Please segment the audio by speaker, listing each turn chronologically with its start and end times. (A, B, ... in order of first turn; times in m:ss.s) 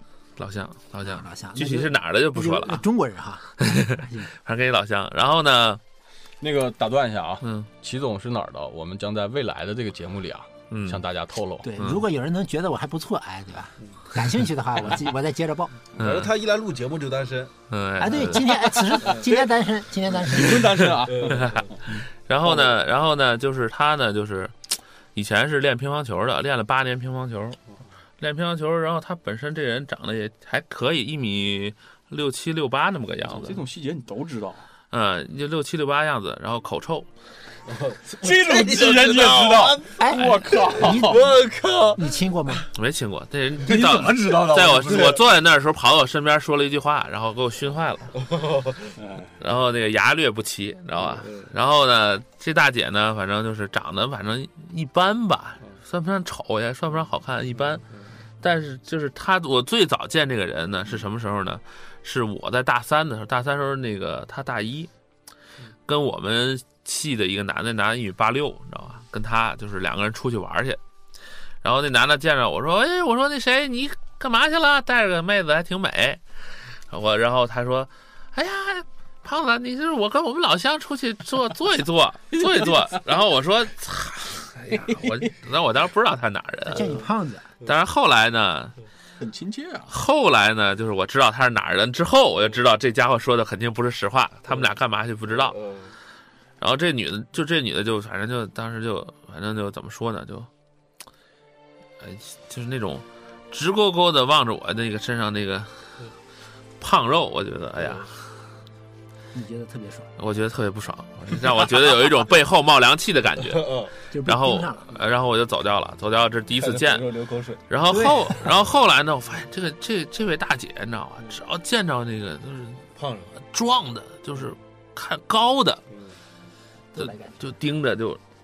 0:00.4-0:02.8 A
0:01.0-0:04.3 B
0:03.6-0:05.8 A
0:06.4-0:11.7 C
0:07.4-0:07.7 A
0:10.7-0:11.0 A
0:11.6-0:15.7 B
0:11.8-0:12.0 A
0:16.0-0:17.5 D
0:16.0-0:16.3 A
0:17.7-0:18.6 A
0:18.0-0:20.9 B
0:18.8-0:19.4 C
0:20.1-0:21.8 C
0:21.0-0:21.7 D
0:21.3-0:27.6 A
0:22.4-0:22.7 D
0:28.2-0:33.6 A
0:33.2-0:34.6 C
0:34.9-0:37.1 A
0:37.6-0:42.1 D
0:38.1-0:41.2 C
0:40.0-0:41.3 B
0:41.9-0:42.7 B
0:42.7-0:48.2 A
0:43.6-0:45.2 C
0:48.2-0:49.0 D
0:49.0-0:49.3 C
0:49.4-0:57.8 A
0:51.0-0:51.5 D
0:58.4-1:04.9 A
1:05.9-1:10.8 A
1:11.6-1:27.0 A
1:22.4-1:22.9 C
1:24.7-1:25.3 C
1:26.7-1:27.5 B
1:27.6-1:28.8 A
1:29.2-1:30.0 C
1:29.9-1:35.6 A
1:34.5-1:34.7 D
1:35.3-1:35.9 D
1:36.6-1:40.5 A
1:42.0-1:46.1 A
1:46.8-1:48.3 A
1:49.3-1:50.1 B
1:50.2-1:57.1 A
1:53.5-1:53.9 D
1:54.1-1:54.9 B
1:56.5-1:57.6 D
1:57.7-2:02.9 A
1:57.9-1:58.3 B
2:02.9-2:03.3 D
2:03.4-2:05.8 A
2:06.9-2:07.4 B
2:07.0-2:08.2 A